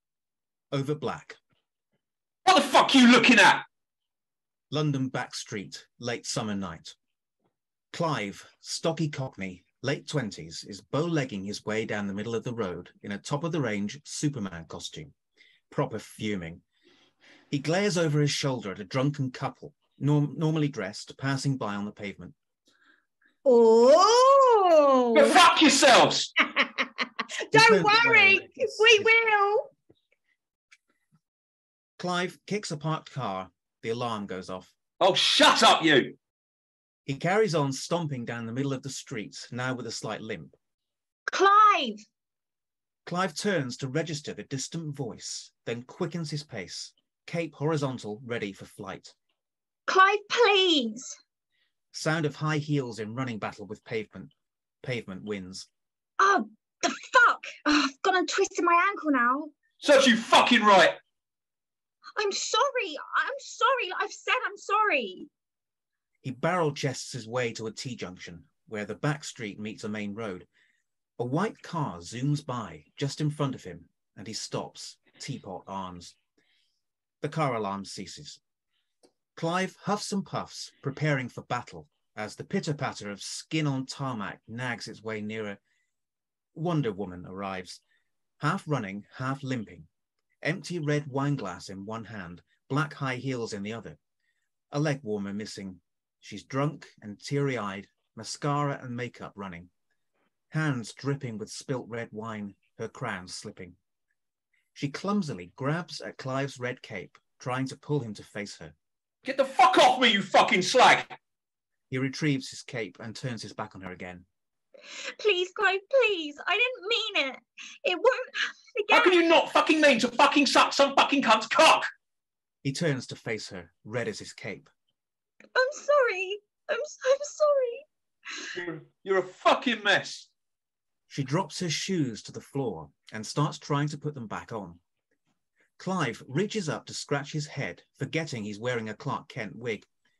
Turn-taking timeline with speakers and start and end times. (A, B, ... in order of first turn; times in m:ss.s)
0:00.7-0:01.4 A
0:02.4-0:03.6 B
0:04.7-0:07.0 A
0:07.9-0:15.1 A
0:15.7-0:16.6 A
0:17.5-0:22.4 A
0:23.4-0:25.4 C
0:25.1-0:26.3 B
0:26.4-0:26.9 C
0:27.5-0:29.7 C
0:27.5-0:29.1 A
0:32.0-0:34.7 A
0:35.0-0:36.1 B
0:37.0-0:40.6 A
0:41.3-0:42.0 C
0:43.0-0:49.2 A
0:49.9-0:51.2 C
0:51.9-0:54.3 A
0:54.8-0:55.7 A
0:56.2-0:59.5 C
0:59.8-1:01.0 B
1:02.2-1:05.3 C
1:06.2-1:10.5 A
1:11.2-1:16.2 A
1:17.2-1:18.4 A
1:19.4-1:25.6 A
1:26.5-1:27.8 A
1:28.4-1:29.9 A
1:30.4-1:34.0 A
1:34.7-1:39.7 A
1:40.5-1:43.8 A
1:44.7-1:48.8 A
1:49.2-1:51.2 B
1:51.9-1:54.2 A
1:55.0-1:59.3 C
1:58.9-2:01.8 B
2:02.6-2:04.7 A
2:05.5-2:07.8 C
2:08.5-2:10.3 B
2:11.1-2:14.8 A
2:15.8-2:19.9 A